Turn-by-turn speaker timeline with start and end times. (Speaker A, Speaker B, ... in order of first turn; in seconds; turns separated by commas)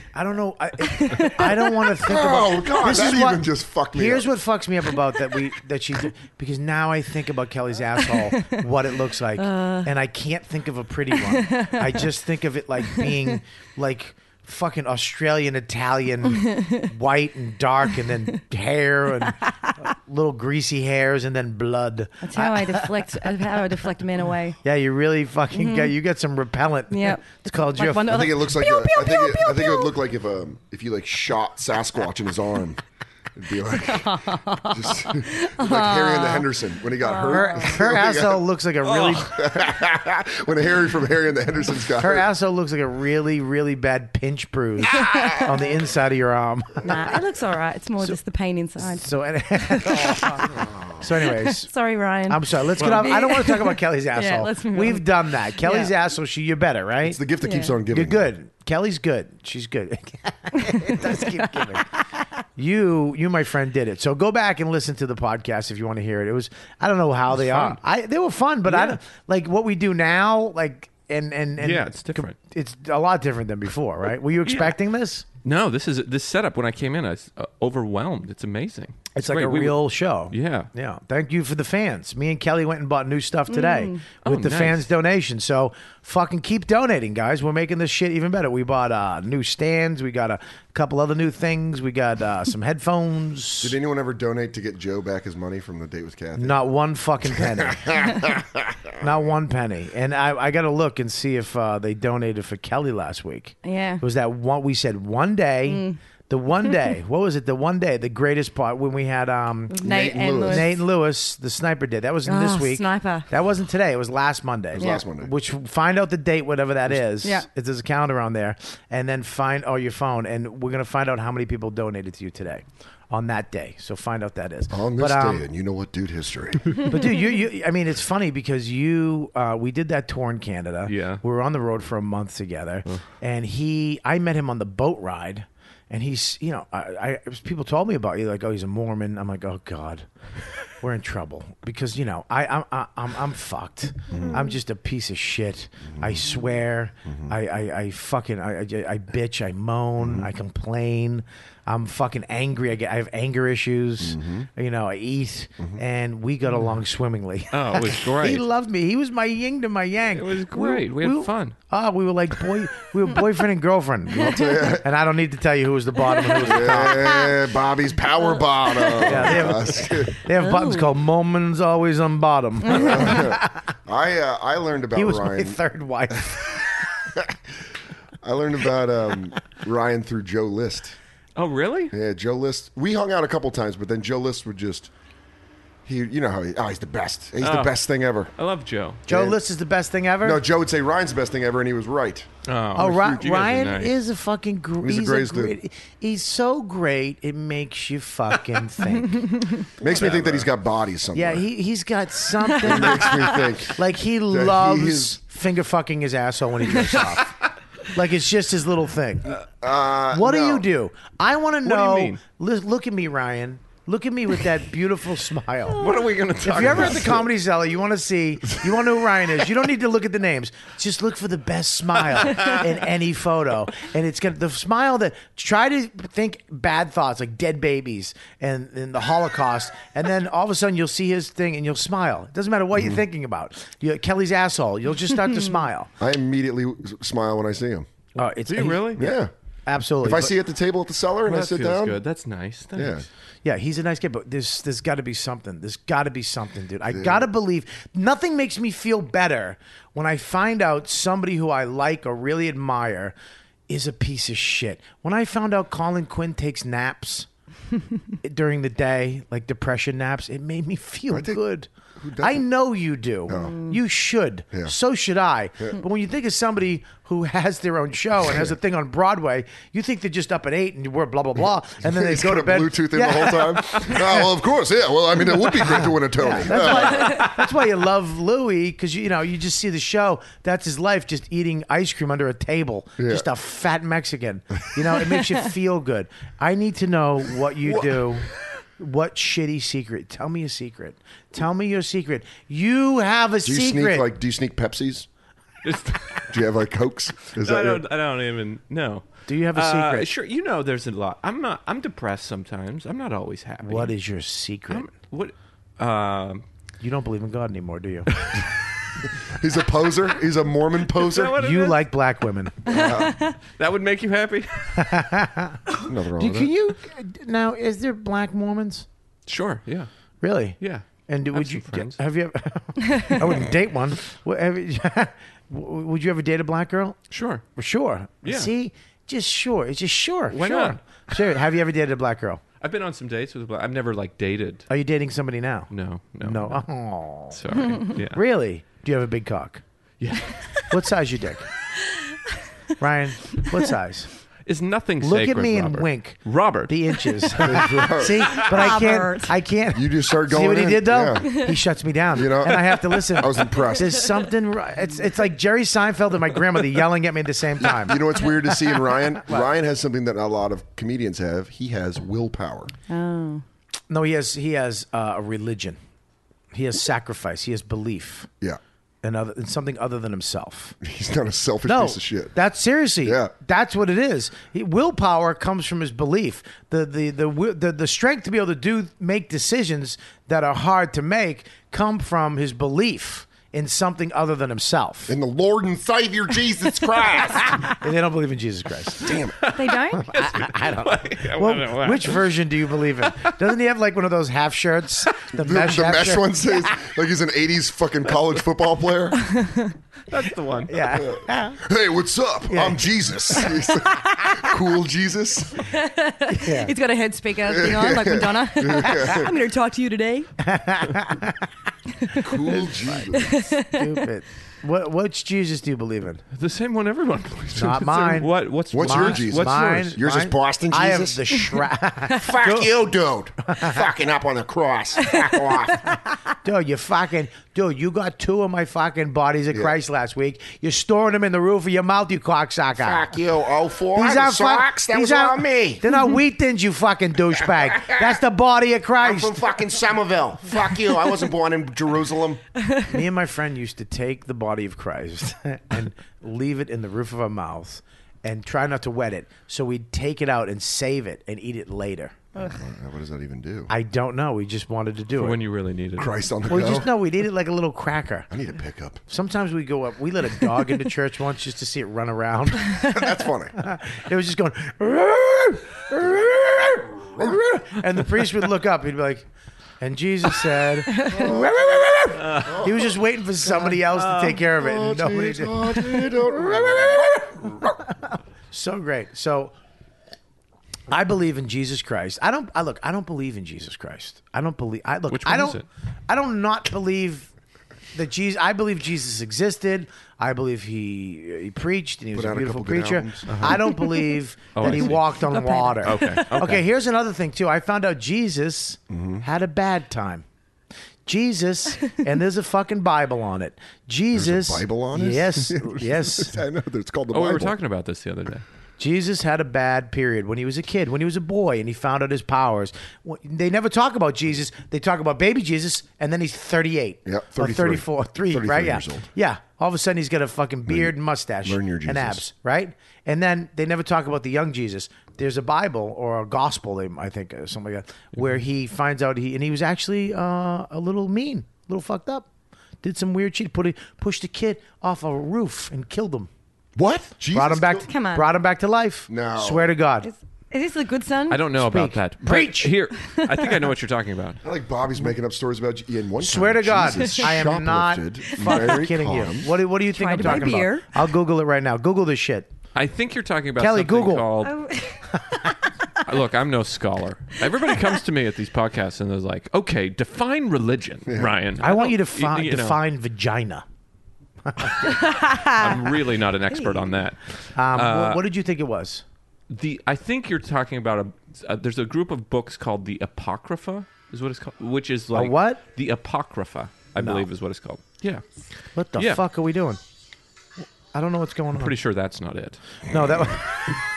Speaker A: 0.1-23.3, Speaker B: 0.8-2.0, Speaker C: 2.0-4.3, Speaker B: 9.4-9.9, Speaker B: 11.3-12.1, Speaker B: 19.5-19.7, Speaker B: 22.2-24.6, Speaker A: 24.6-28.1, Speaker B: 25.5-25.9, Speaker B: 26.9-29.9, Speaker C: 28.1-32.8, Speaker C: 33.4-42.3, Speaker B: 33.8-36.5, Speaker B: 37.0-37.8, Speaker A: 37.3-39.6, Speaker A: 42.0-47.0, Speaker B: 45.0-45.6, Speaker B: 46.8-50.5, Speaker A: 48.8-50.4, Speaker C: 50.5-51.0, Speaker A: 51.0-51.7, Speaker B: 51.2-55.9, Speaker A: 52.3-57.2, Speaker D: 52.8-53.1, Speaker C: 57.0-58.3, Speaker B: 57.4-57.8, Speaker A: 57.9-61.9, Speaker B: 60.8-61.8, Speaker A: 62.6-75.2, Speaker D: 67.3-67.8, Speaker D: 68.7-69.0, Speaker D: 71.6-72.3, Speaker D: 74.5-74.8, Speaker D: 75.4-80.7, Speaker A: 79.2-93.8, Speaker B: 83.5-84.0, Speaker D: 84.2-84.9, Speaker C: 93.6-96.6, Speaker A: 96.4-97.9, Speaker C: 97.3-98.4, Speaker A: 99.0-109.8, Speaker B: 103.6-104.0, Speaker B: 105.7-106.0, Speaker B: 109.7-110.8, Speaker C: 109.8-110.8, Speaker A: 110.5-125.4, Speaker B: 112.2-113.3, Speaker C: 114.7-115.3, Speaker B: 117.2-117.5, Speaker C: 124.7-126.8, Speaker A: 126.9-140.1, Speaker D: 130.9-131.2, Speaker A: 140.8-164.2, Speaker C: 144.1-144.4, Speaker C: 145.9-146.3, Speaker C: 147.1-147.3, Speaker C: 150.0-150.3, Speaker C: 154.0-154.5, Speaker D: 157.5-158.4, Speaker D: 160.1-161.6, Speaker C: 164.1-164.9, Speaker A: 164.8-167.1, Speaker B: 166.2-166.5, Speaker C: 166.4-170.2, Speaker A: 169.1-173.6, Speaker B: 170.4-170.9, Speaker C: 172.7-175.6, Speaker B: 172.8-173.1, Speaker A: 174.9-176.6, Speaker C: 176.1-176.6, Speaker C: 178.2-181.0, Speaker D: 181.4-181.9, Speaker C: 181.9-184.9, Speaker C: 185.9-188.3, Speaker D: 187.4-187.8, Speaker D: 188.4-189.0, Speaker C: 189.1-189.4, Speaker A: 189.1-190.4, Speaker C: 190.2-192.3, Speaker D: 192.5-194.0, Speaker A: 192.8-199.3, Speaker C: 194.8-195.6, Speaker C: 199.8-201.5, Speaker A: 200.0-200.4, Speaker A: 201.1-203.2, Speaker C: 202.6-205.2, Speaker B: 202.7-203.2, Speaker A: 203.7-207.3, Speaker A: 207.9-209.4, Speaker C: 209.3-210.7, Speaker A: 210.1-215.8, Speaker D: 211.6-212.2, Speaker D: 215.7-217.2, Speaker A: 216.4-235.9, Speaker C: 216.6-217.2, Speaker C: 232.8-233.0, Speaker C: 236.0-237.9, Speaker A: 238.2-239.1, Speaker D: 238.5-239.1, Speaker C: 239.0-239.3, Speaker A: 239.7-240.3, Speaker C: 240.0-242.0, Speaker D: 241.3-243.1, Speaker C: 242.8-243.1, Speaker A: 243.4-253.2, Speaker C: 246.9-247.3, Speaker A: 253.7-257.3, Speaker A: 258.2-274.1, Speaker C: 261.1-261.4, Speaker C: 262.0-262.4, Speaker C: 263.3-263.6, Speaker B: 263.3-263.8, Speaker C: 268.3-268.5, Speaker C: 271.8-277.3, Speaker A: 275.8-288.3, Speaker C: 283.0-283.3, Speaker C: 287.6-288.1, Speaker A: 288.8-294.1, Speaker C: 293.4-295.1, Speaker D: 295.6-296.3, Speaker C: 296.3-297.9, Speaker D: 297.3-303.9, Speaker A: 299.3-300.1, Speaker A: 303.6-304.9, Speaker D: 304.7-306.4, Speaker A: 306.8-308.1, Speaker C: 309.2-311.4, Speaker D: 311.0-311.9, Speaker A: 311.4-312.6, Speaker C: 312.6-313.2, Speaker B: 312.7-313.3, Speaker D: 313.5-314.9, Speaker A: 314.8-315.6, Speaker C: 315.8-316.5, Speaker A: 316.2-318.9, Speaker D: 319.3-319.9, Speaker A: 320.2-327.0, Speaker D: 320.6-322.0, Speaker D: 327.1-327.4, Speaker A: 327.6-332.4, Speaker D: 328.2-328.5, Speaker D: 330.3-330.8, Speaker D: 332.6-334.7, Speaker A: 334.7-335.7, Speaker D: 335.7-336.7, Speaker A: 336.2-337.4, Speaker D: 337.3-338.2, Speaker A: 338.0-339.6, Speaker D: 340.0-340.6, Speaker A: 340.7-341.5, Speaker A: 342.8-344.1, Speaker D: 344.5-347.1, Speaker A: 345.0-358.5, Speaker C: 347.4-348.5, Speaker B: 348.4-349.3, Speaker C: 349.7-351.5, Speaker C: 352.1-354.1, Speaker C: 357.6-362.7, Speaker B: 362.9-363.4, Speaker A: 363.9-365.8, Speaker A: 366.5-368.3, Speaker A: 369.0-370.8, Speaker C: 370.8-372.4, Speaker A: 371.7-385.1, Speaker C: 373.0-373.3, Speaker C: 385.1-387.5, Speaker A: 387.8-389.1, Speaker C: 389.0-389.5, Speaker D: 389.4-392.3, Speaker B: 389.6-390.1, Speaker A: 390.0-396.3, Speaker D: 393.1-393.4, Speaker C: 395.3-399.2, Speaker B: 399.4-399.7, Speaker D: 400.1-400.8, Speaker A: 400.7-401.6, Speaker C: 400.9-405.6, Speaker A: 402.5-402.9, Speaker B: 405.6-410.3, Speaker A: 406.3-406.7, Speaker C: 407.4-409.3, Speaker A: 410.4-411.4, Speaker B: 412.1-412.4, Speaker C: 412.2-413.4, Speaker B: 413.1-413.9, Speaker A: 413.7-416.2, Speaker D: 416.4-419.9, Speaker A: 417.6-422.7, Speaker C: 418.7-421.0, Speaker E: 420.3-421.1, Speaker E: 422.2-425.8, Speaker A: 426.4-433.1, Speaker E: 432.8-435.8, Speaker A: 433.9-439.5, Speaker E: 437.6-437.9, Speaker E: 439.0-441.6, Speaker C: 441.1-442.4, Speaker A: 442.9-452.3, Speaker C: 452.5-453.7, Speaker A: 453.7-455.4, Speaker D: 455.2-456.2, Speaker C: 456.0-456.9, Speaker A: 456.5-458.3, Speaker C: 458.3-459.0, Speaker A: 459.1-462.9, Speaker C: 462.7-463.6, Speaker A: 463.6-469.3, Speaker A: 469.8-477.3, Speaker B: 471.0-471.3, Speaker C: 471.1-472.9, Speaker D: 472.2-472.6, Speaker D: 473.9-474.4, Speaker C: 474.5-477.8, Speaker A: 478.0-479.5, Speaker A: 480.9-487.3, Speaker D: 485.1-485.7, Speaker A: 487.9-500.2, Speaker C: 492.1-493.7, Speaker D: 493.3-493.6, Speaker D: 494.6-495.3, Speaker B: 495.2-496.3, Speaker D: 495.8-496.6, Speaker C: 498.9-499.2, Speaker A: 501.1-506.4, Speaker C: 504.1-507.6, Speaker D: 507.1-508.4, Speaker A: 508.8-532.3, Speaker C: 517.0-519.1, Speaker C: 520.7-522.2, Speaker A: 532.8-536.3, Speaker C: 536.8-537.9, Speaker A: 537.3-540.1, Speaker B: 537.8-538.3, Speaker C: 539.1-539.7, Speaker B: 540.0-541.4, Speaker D: 541.3-544.4, Speaker A: 541.5-542.7, Speaker B: 543.1-543.5, Speaker C: 544.4-549.5, Speaker A: 546.2-552.5, Speaker B: 548.4-548.7, Speaker B: 549.9-550.9, Speaker D: 552.8-554.6, Speaker A: 553.6-554.3, Speaker B: 554.4-555.6, Speaker D: 556.0-562.8, Speaker C: 561.1-561.4, Speaker A: 561.6-563.6, Speaker A: 564.5-565.0, Speaker B: 564.8-565.8, Speaker D: 565.5-568.2, Speaker B: 566.5-566.9, Speaker A: 567.5-569.0, Speaker D: 569.5-578.2, Speaker A: 575.1-575.6, Speaker A: 577.0-577.3, Speaker A: 578.8-579.8, Speaker D: 579.0-579.2, Speaker A: 580.9-581.8, Speaker D: 581.5-582.6, Speaker A: 582.9-583.8